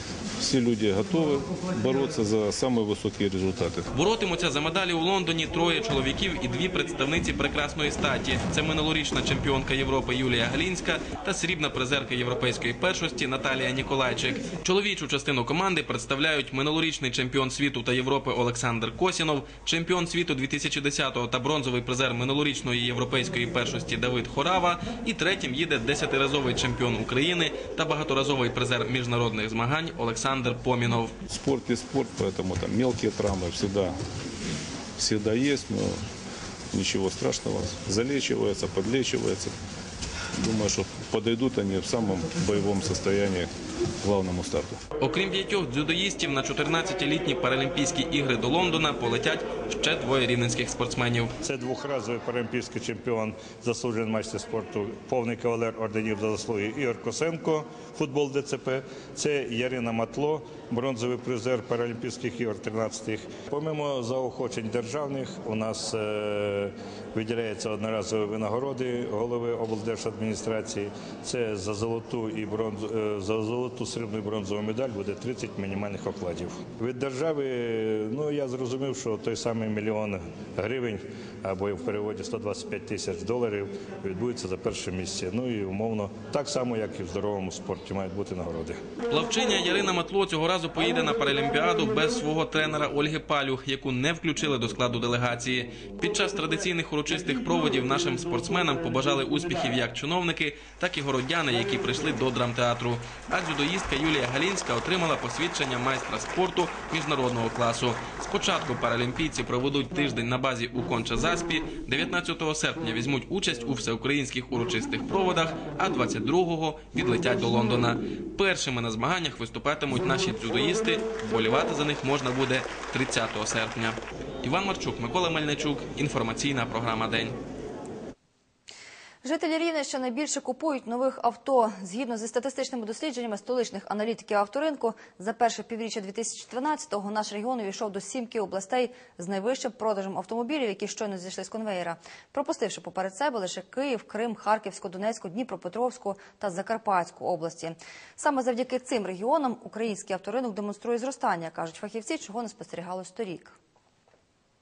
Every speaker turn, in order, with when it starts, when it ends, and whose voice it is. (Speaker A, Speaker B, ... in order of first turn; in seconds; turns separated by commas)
Speaker A: 0.4-3.9, Speaker B: 3.9-31.1, Speaker A: 31.3-34.0, Speaker A: 35.0-36.0, Speaker A: 36.7-39.5, Speaker A: 40.4-43.5, Speaker A: 44.0-44.8, Speaker B: 45.0-51.3, Speaker C: 51.4-88.8, Speaker B: 89.1-127.4, Speaker D: 129.2-153.6